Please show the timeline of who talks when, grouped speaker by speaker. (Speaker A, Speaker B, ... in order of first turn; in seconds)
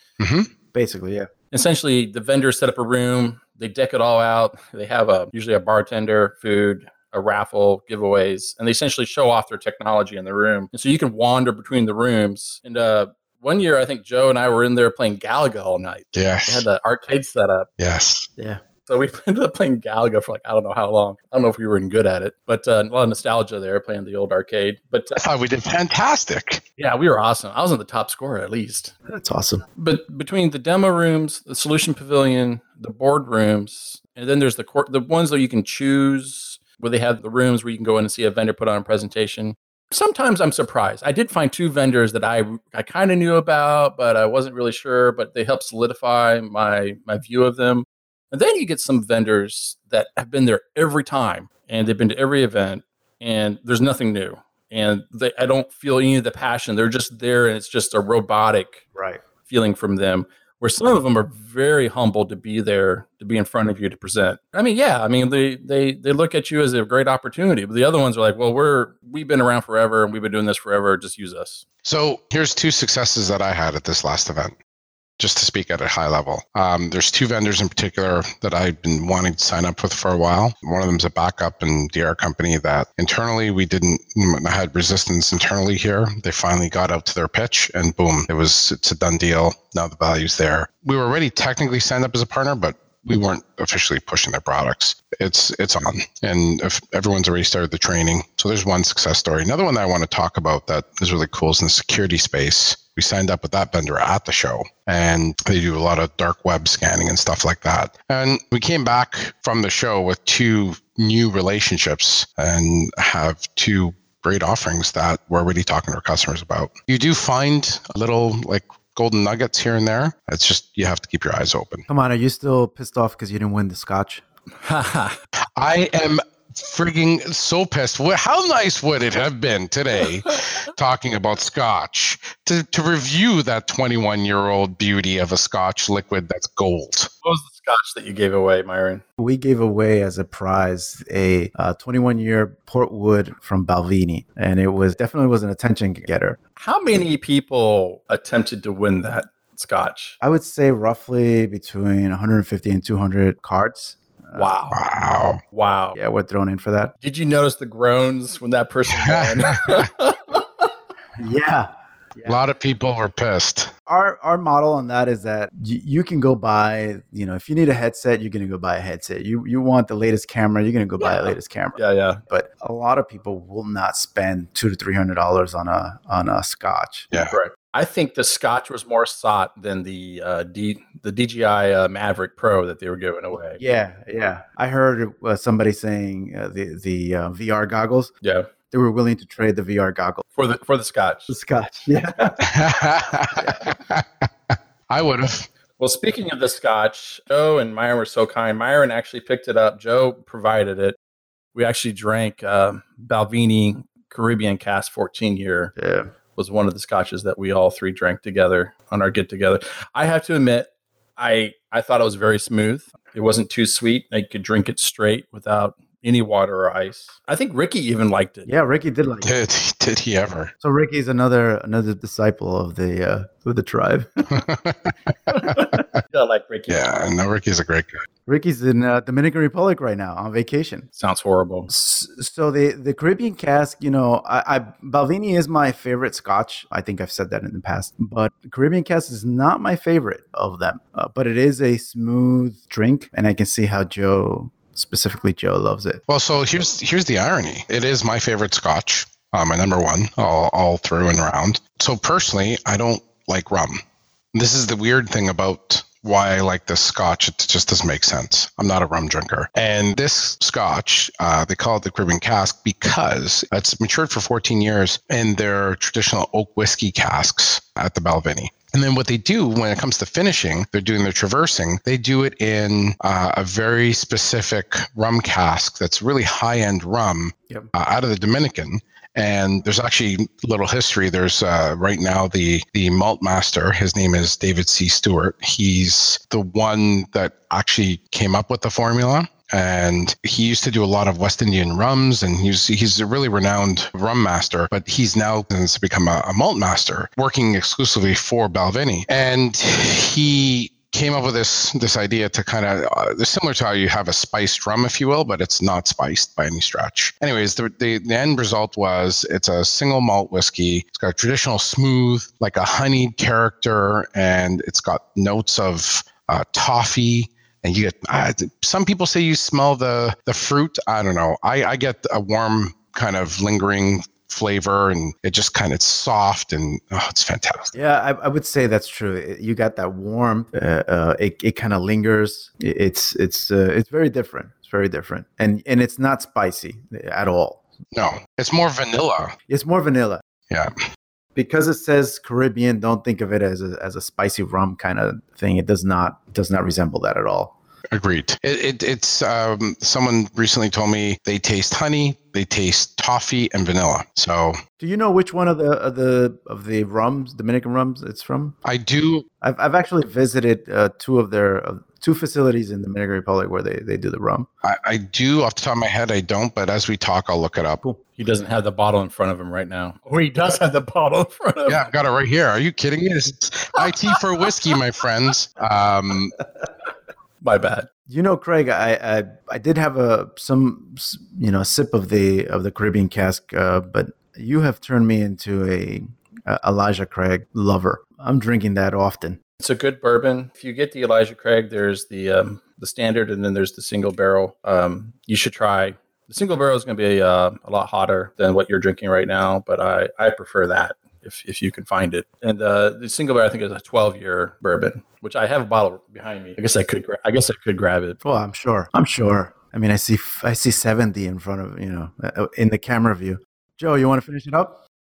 Speaker A: 0.2-0.5, 16.1-16.7, 17.8-18.3, 25.1-26.6, 71.8-74.5, 75.2-121.9, 125.6-137.1, 154.7-155.4, 158.9-159.8, 162.3-163.7, 192.4-195.5, 219.2-220.5, 224.4-224.9, 226.7-228.0, 246.1-253.8, 254.3-327.7, 337.9-339.3, 347.9-354.6, 358.6-359.3, 364.6-367.8, 371.7-376.4
Speaker B: 0.7-1.3, 29.1-29.6, 59.0-59.2, 121.9-124.2, 139.2-146.4, 150.2-154.5, 156.0-156.9, 161.2-162.4, 163.9-177.1, 183.6-188.1, 188.7-190.2, 191.3-192.5, 193.4-193.7, 205.8-206.1, 218.5-219.3, 220.6-224.5, 228.3-230.9, 231.7-246.0, 327.7-337.6, 339.5-340.2, 341.4-347.6, 354.8-358.6, 359.4-364.5, 378.1-389.4, 408.2-414.8
Speaker C: 1.5-17.7, 18.9-25.2, 26.8-28.9, 29.8-58.9, 59.5-71.6, 124.6-125.2, 137.2-139.0, 146.6-150.2, 154.4-154.8, 155.5-156.0, 157.0-160.6, 171.0-172.2, 177.3-183.6, 188.2-188.5, 190.4-191.3, 195.8-201.0, 201.6-205.7, 206.4-218.5, 225.3-226.8, 231.0-231.7, 368.2-371.9, 373.8-374.5, 377.4-377.9, 389.6-408.2